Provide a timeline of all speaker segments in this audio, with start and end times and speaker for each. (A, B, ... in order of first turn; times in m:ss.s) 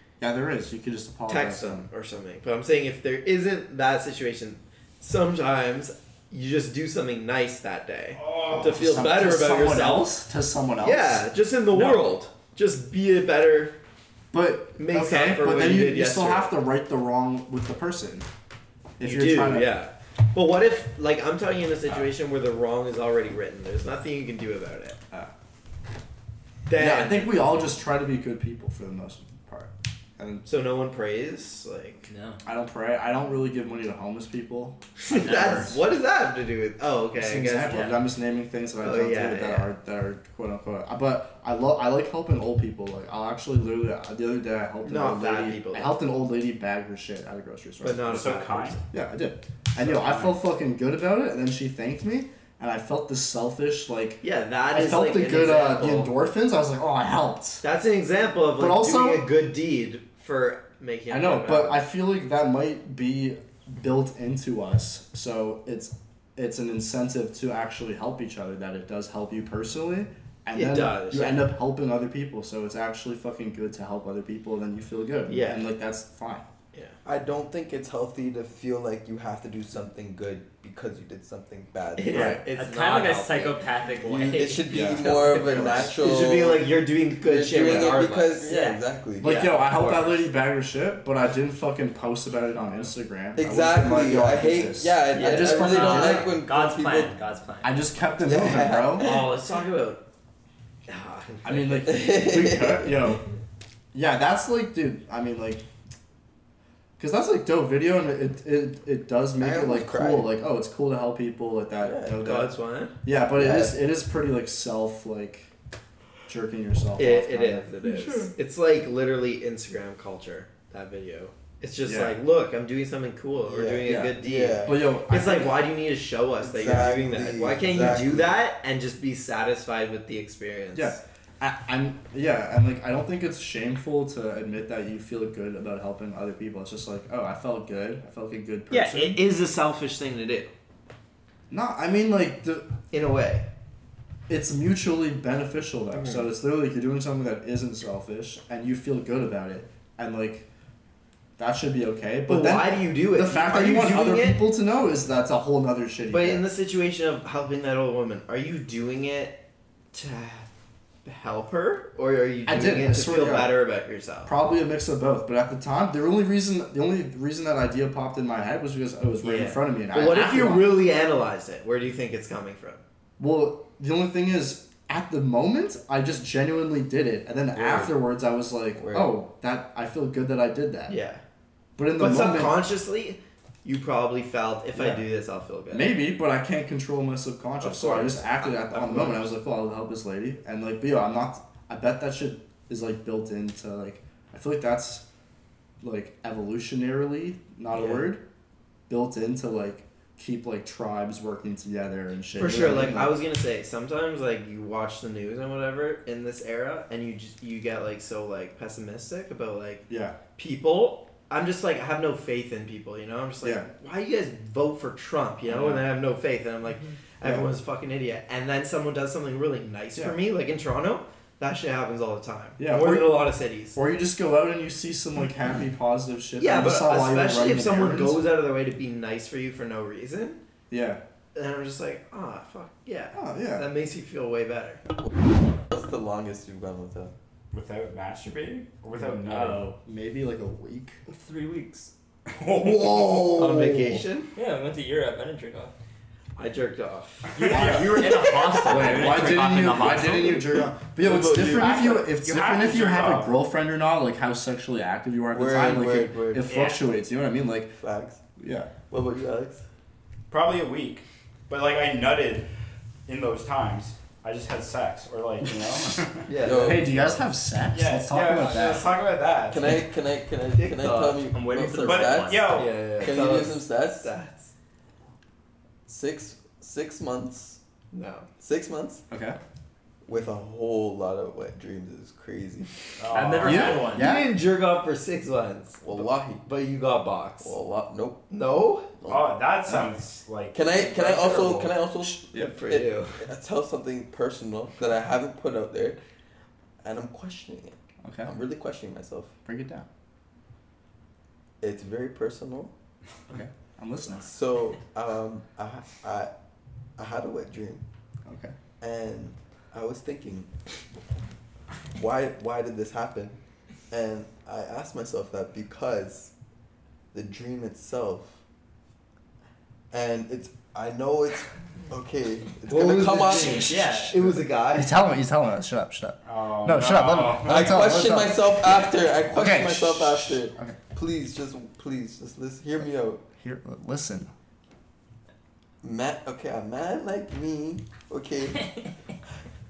0:00.2-0:01.9 A
0:01.3-0:10.2 B
0:08.2-0:08.8 C
0:08.5-0:12.0 A
0:10.8-0:13.8 B
0:14.3-0:18.3 A
0:14.8-0:16.6 B
0:19.0-0:19.7 A
0:19.0-0:25.0 B
0:26.7-0:27.5 B
0:26.8-0:30.5 A
0:30.5-0:32.1 B
0:32.1-0:32.4 D
0:32.4-0:35.8 A
0:35.0-0:37.9 B
0:35.3-0:35.7 D
0:37.2-0:48.2 A
0:37.7-0:38.0 D
0:38.8-0:39.7 B
0:44.8-0:46.0 B
0:47.8-0:48.8 B
0:48.0-0:48.8 C
0:48.9-0:57.6 A
0:49.8-0:50.4 C
0:54.2-0:56.1 B
0:57.6-1:01.9 B
0:58.6-0:59.3 A
1:01.1-1:16.5 A
1:10.5-1:11.5 B
1:15.3-1:15.6 B
1:16.7-1:17.0 B
1:17.0-1:22.4 E
1:22.0-1:23.6 B
1:22.1-1:22.4 A
1:22.5-1:25.7 D
1:24.1-1:30.2 E
1:24.7-1:26.0 A
1:25.3-1:28.5 B
1:27.6-1:28.0 A
1:28.5-1:28.8 D
1:29.2-1:36.3 A
1:33.4-1:37.2 E
1:35.1-1:36.2 B
1:35.7-1:37.8 D
1:37.6-1:39.1 A
1:38.2-1:39.3 E
1:39.0-1:40.0 B
1:40.9-1:42.0 B
1:41.4-1:43.2 A
1:41.9-1:43.1 E
1:43.9-1:45.6 A
1:47.0-1:52.5 A
1:49.4-1:50.3 E
1:51.8-1:52.2 E
1:52.2-1:53.0 B
1:53.0-1:55.5 A
1:53.3-1:53.8 E
1:56.3-1:57.7 A
1:57.0-2:11.0 B
2:01.8-2:02.2 A
2:03.5-2:04.8 E
2:03.8-2:05.6 A
2:06.4-2:08.4 E
2:10.7-2:19.2 A
2:18.7-2:20.5 B
2:21.5-2:22.7 A
2:22.9-2:23.5 B
2:24.3-2:30.5 A
2:25.9-2:26.3 B
2:31.4-2:36.4 A
2:32.3-2:34.5 B
2:36.1-2:40.5 B
2:41.0-2:44.3 B
2:42.5-2:43.6 A
2:44.2-2:50.8 A
2:49.2-2:52.8 B
2:53.2-3:01.0 A
2:57.5-2:58.0 E
2:58.8-2:59.2 E
3:00.9-3:01.2 B
3:01.8-3:02.6 A
3:02.0-3:06.0 B
3:04.7-3:05.0 A
3:05.7-3:15.0 A
3:07.6-3:09.3 B
3:15.8-3:18.2 A
3:17.7-3:18.1 B
3:18.9-3:23.2 A
3:22.4-3:43.8 B
3:29.9-3:30.2 A
3:33.4-3:33.7 A
3:35.5-3:35.9 A
3:37.2-3:37.5 A
3:42.6-3:48.2 A
3:46.4-3:50.4 B
3:50.7-3:51.0 A
3:51.4-3:54.8 B
3:53.1-3:53.6 A
3:55.7-3:57.1 E
3:57.5-3:59.7 C
3:59.0-4:01.0 A
4:01.1-4:01.9 D
4:02.3-4:03.8 C
4:02.6-4:04.0 A
4:03.3-4:04.3 B
4:04.4-4:05.7 D
4:06.4-4:07.8 B
4:07.3-4:09.3 C
4:07.4-4:10.5 D
4:07.5-4:07.8 A
4:08.6-4:17.8 A
4:11.0-4:12.0 E
4:11.6-4:13.4 C
4:15.3-4:16.6 E
4:16.5-4:16.8 C
4:17.8-4:18.2 E
4:18.4-4:18.7 A
4:18.9-4:19.6 E
4:20.3-4:22.5 C
4:23.1-4:26.3 C
4:26.3-4:27.0 B
4:26.4-4:27.2 E
4:26.4-4:28.9 A
4:27.7-4:29.8 C
4:29.5-4:34.1 E
4:30.6-4:31.3 B
4:31.3-4:32.6 D
4:31.8-4:33.1 C
4:32.6-4:34.5 B
4:35.9-4:37.6 E
4:37.9-4:38.3 B
4:38.4-4:39.0 E
4:39.1-4:39.4 A
4:40.1-4:42.9 E
4:43.0-4:44.1 D
4:43.1-4:44.3 A
4:43.5-4:47.6 B
4:45.8-4:46.4 E
4:47.4-4:48.2 E
4:48.3-4:48.9 B
4:49.0-4:49.4 E
4:49.1-4:51.6 C
4:50.5-4:56.0 E
4:50.7-4:51.7 B
4:52.0-4:52.5 A
4:52.3-4:53.2 B
4:56.8-4:59.3 E
4:58.0-4:58.3 A
4:59.4-4:59.9 A
5:01.6-5:02.7 E
5:03.3-5:04.3 A
5:04.2-5:06.3 E
5:07.0-5:07.8 E
5:08.2-5:08.6 A
5:08.8-5:10.5 E
5:12.0-5:13.4 E
5:13.9-5:16.3 E
5:17.1-5:18.4 E
5:19.9-5:24.1 E
5:22.7-5:24.9 B
5:23.7-5:24.2 C
5:24.7-5:30.8 A
5:26.2-5:28.0 C
5:27.4-5:33.2 E
5:33.4-5:34.3 A
5:35.8-5:38.8 E